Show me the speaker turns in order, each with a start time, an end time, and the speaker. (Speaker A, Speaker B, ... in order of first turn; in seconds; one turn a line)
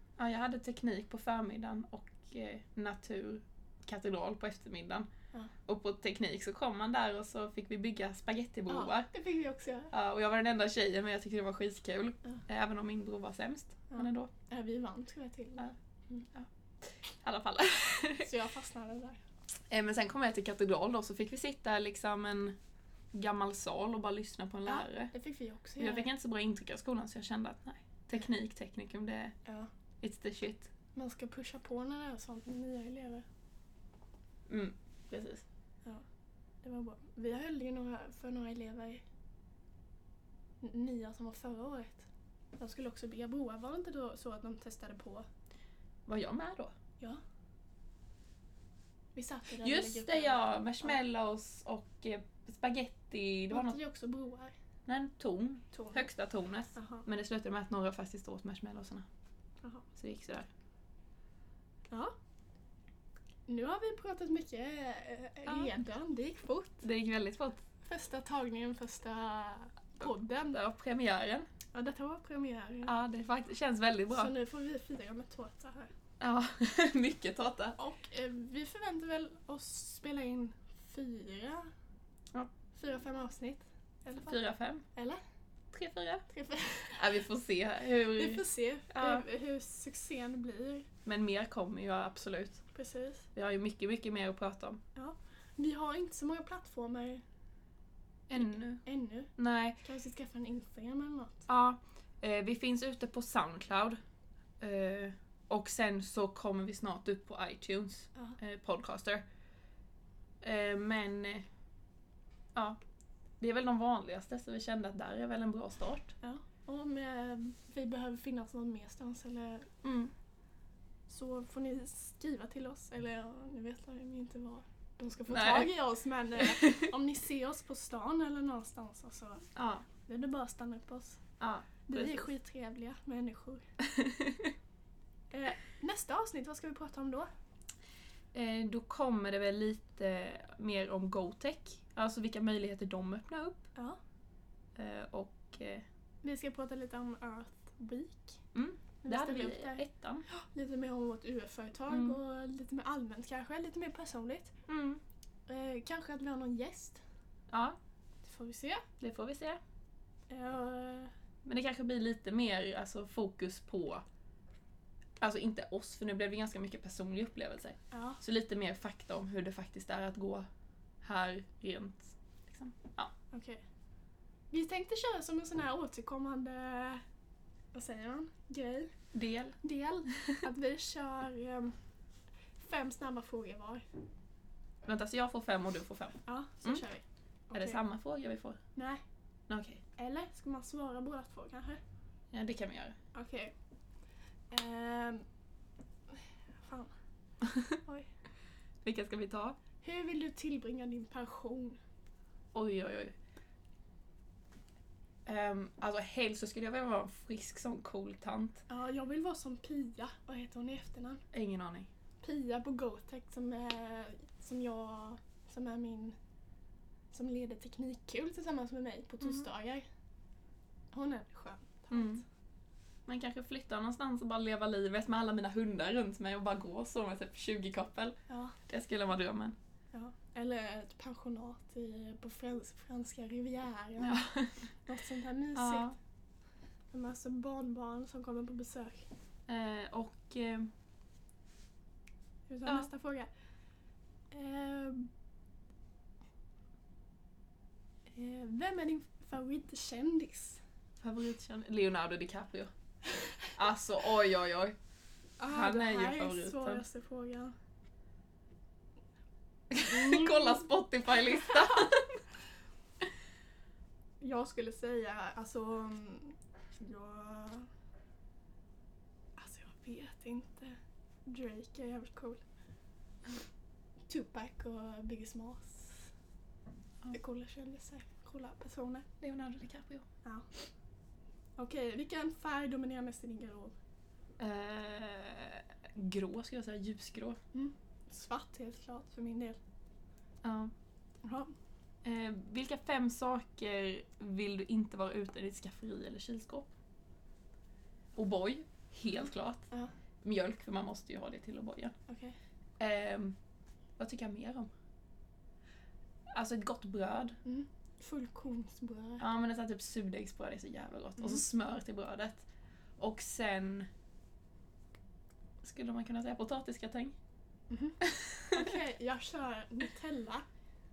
Speaker A: 0.2-5.1
Speaker A: 5.7-9.1
Speaker B: 8.7-9.9
Speaker A: 9.9-14.3
Speaker B: 13.9-16.2
Speaker A: 16.3-18.3
Speaker B: 18.2-19.2
Speaker A: 19.7-22.5
Speaker A: 23.1-25.1
Speaker B: 24.7-26.1
Speaker A: 25.8-29.3
Speaker A: 30.0-30.7
Speaker B: 30.9-33.2
Speaker A: 34.5-35.4
Speaker B: 36.6-39.0
Speaker B: 40.6-42.1
Speaker B: 42.6-45.3
Speaker A: 46.0-46.7
Speaker B: 49.1-51.0
Speaker A: 49.6-53.8
Speaker B: 53.5-54.5
Speaker A: 54.9-59.0
Speaker B: 55.7-56.1
Speaker B: 56.7-57.0
Speaker A: 60.0-60.5
Speaker B: 63.5-66.8
Speaker A: 66.8-67.6
Speaker B: 67.8-70.6
Speaker A: 70.0-71.5
Speaker B: 71.7-72.9
Speaker A: 72.8-74.3
Speaker B: 74.1-75.9
Speaker A: 76.2-77.8
Speaker B: 77.8-81.7
Speaker B: 82.7-85.2
Speaker A: 84.3-84.8
Speaker A: 85.7-86.2
Speaker B: 86.3-87.0
Speaker A: 86.9-89.2
Speaker B: 88.1-90.9
Speaker A: 91.0-92.6
Speaker B: 92.7-93.3
Speaker A: 93.3-94.8
Speaker B: 94.9-97.2
Speaker A: 98.3-98.8
Speaker B: 98.8-101.5
Speaker A: 99.4-99.8
Speaker A: 101.5-104.0
Speaker A: 104.6-109.2
Speaker A: 110.4-111.5
Speaker A: 113.4-116.1
Speaker B: 116.2-119.7
Speaker A: 119.8-120.1
Speaker B: 121.1-129.5
Speaker A: 125.3-125.7
Speaker A: 126.5-126.9
Speaker A: 129.5-129.8
Speaker B: 130.1-131.2
Speaker A: 131.4-132.2
Speaker B: 131.9-133.7
Speaker A: 133.9-134.5
Speaker B: 135.3-137.3
Speaker A: 138.3-143.7
Speaker A: 144.8-145.8
Speaker B: 146.2-148.4
Speaker A: 148.5-150.2
Speaker B: 149.0-154.5
Speaker A: 151.9-152.2
Speaker A: 154.7-155.0
Speaker B: 155.5-157.0
Speaker A: 157.5-157.8
Speaker B: 158.2-158.8
Speaker A: 159.0-159.6
Speaker B: 160.3-161.1
Speaker A: 161.4-164.0
Speaker A: 165.2-170.4
Speaker B: 167.9-168.2
Speaker A: 171.0-173.1
Speaker B: 173.3-173.6
Speaker B: 174.5-177.0
Speaker B: 177.7-178.9
Speaker A: 179.1-179.6
Speaker B: 179.6-181.8
Speaker A: 180.1-180.4
Speaker B: 182.6-183.8
Speaker A: 184.8-186.8
Speaker B: 186.2-187.8
Speaker A: 187.5-188.6
Speaker B: 188.8-189.0
Speaker A: 189.5-189.8
Speaker B: 189.9-191.8
Speaker A: 192.3-193.0
Speaker B: 193.1-193.5
Speaker B: 194.5-195.2
Speaker B: 196.6-196.9
Speaker A: 197.5-197.7
Speaker B: 197.8-198.1
Speaker A: 198.8-199.6
Speaker B: 199.8-201.8
Speaker A: 202.5-203.1
Speaker A: 205.2-208.6
Speaker B: 208.7-211.2
Speaker A: 211.3-211.9
Speaker B: 212.2-216.2
Speaker B: 217.1-219.8
Speaker B: 220.9-222.2
Speaker A: 221.9-222.2
Speaker A: 223.1-229.6
Speaker B: 228.3-228.6
Speaker B: 229.9-235.9
Speaker A: 234.0-234.6
Speaker A: 235.5-235.9
Speaker B: 236.9-239.1
Speaker A: 239.5-240.7
Speaker B: 242.5-243.3
Speaker B: 244.3-245.1
Speaker B: 248.1-250.6
Speaker A: 251.0-252.7
Speaker A: 253.4-254.8
Speaker B: 255.4-257.5
Speaker A: 255.5-256.8
Speaker A: 259.7-262.2
Speaker B: 259.8-260.6
Speaker B: 264.2-267.7
Speaker B: 269.4-272.4
Speaker B: 274.1-276.1
Speaker B: 277.1-279.1
Speaker A: 279.2-280.1
Speaker B: 281.6-283.8
Speaker A: 284.4-287.4
Speaker B: 287.5-289.6
Speaker A: 290.4-290.7
Speaker B: 291.2-291.5
Speaker A: 292.0-296.7
Speaker A: 298.1-299.7
Speaker A: 300.2-301.9
Speaker B: 302.1-302.4
Speaker A: 302.8-303.4
Speaker A: 304.0-304.7
Speaker A: 306.3-307.4
Speaker B: 307.4-309.2
Speaker A: 309.2-312.4
Speaker A: 313.0-313.9
Speaker A: 315.6-317.1
Speaker B: 317.7-320.4
Speaker A: 318.0-318.7